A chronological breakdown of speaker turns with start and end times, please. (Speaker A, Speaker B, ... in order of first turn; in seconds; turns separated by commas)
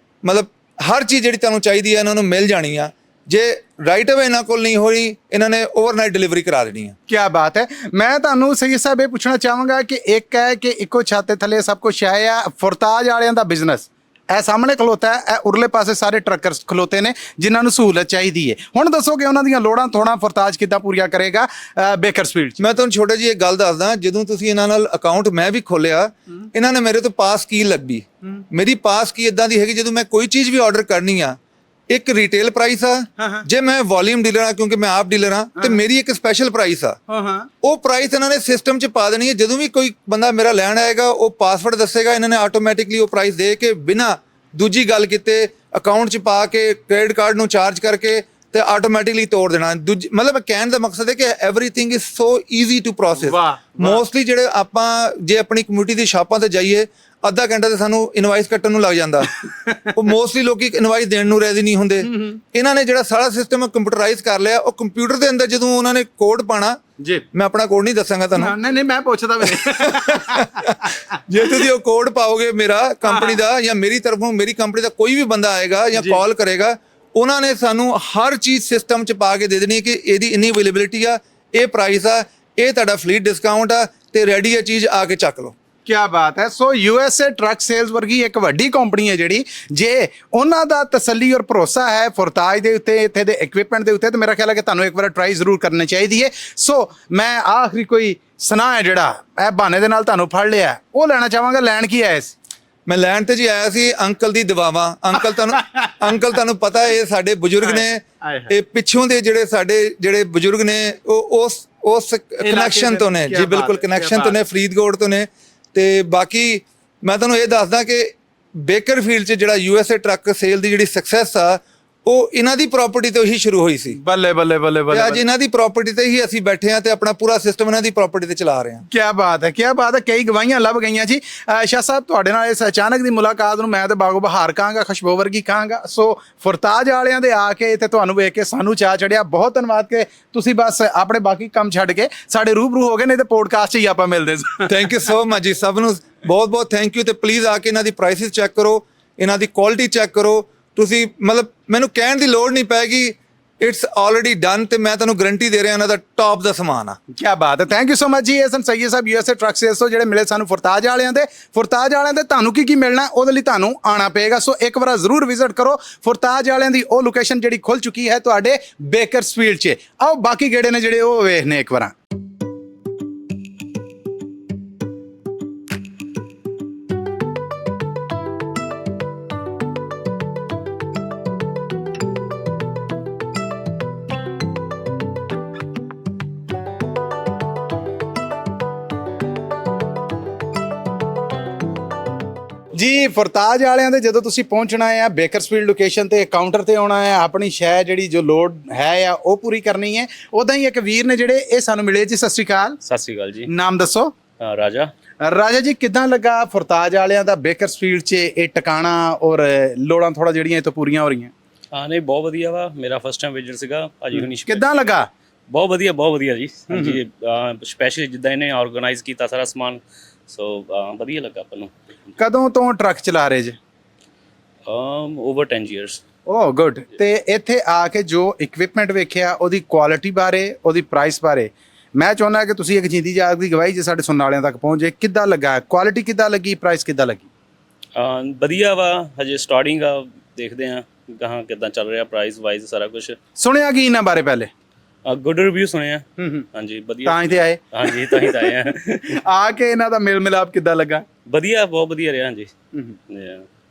Speaker A: 0.2-7.0, Speaker B: 7.1-22.7, Speaker A: 22.6-31.4, Speaker A: 31.9-37.0, Speaker B: 33.2-33.4, Speaker B: 37.1-37.5, Speaker A: 37.6-59.4, Speaker B: 53.1-54.0, Speaker B: 59.5-59.9, Speaker A: 59.9-66.8, Speaker B: 62.1-62.4, Speaker B: 67.0-67.2, Speaker A: 67.3-68.5, Speaker B: 68.3-71.6, Speaker A: 69.8-85.5, Speaker B: 73.1-73.4, Speaker B: 85.8-102.3, Speaker A: 102.8-124.0, Speaker B: 105.3-106.2, Speaker B: 107.6-108.5, Speaker B: 112.4-114.3, Speaker B: 124.0-125.2, Speaker A: 124.9-128.8, Speaker B: 128.9-144.7, Speaker A: 144.7-157.0, Speaker B: 157.1-171.9, Speaker B: 192.7-202.8, Speaker C: 202.8-203.5, Speaker B: 203.5-204.1, Speaker C: 204.4-204.9, Speaker B: 205.2-211.3, Speaker C: 211.7-214.6, Speaker B: 214.4-215.1, Speaker C: 215.5-221.7, Speaker B: 216.7-217.0, Speaker B: 222.2-223.6, Speaker C: 224.7-226.0, Speaker B: 226.3-237.3, Speaker C: 237.9-243.2, Speaker B: 243.4-244.5, Speaker C: 245.0-249.2, Speaker B: 246.2-246.4, Speaker B: 247.0-248.5, Speaker B: 249.1-251.0, Speaker C: 251.3-252.5, Speaker C: 253.1-253.4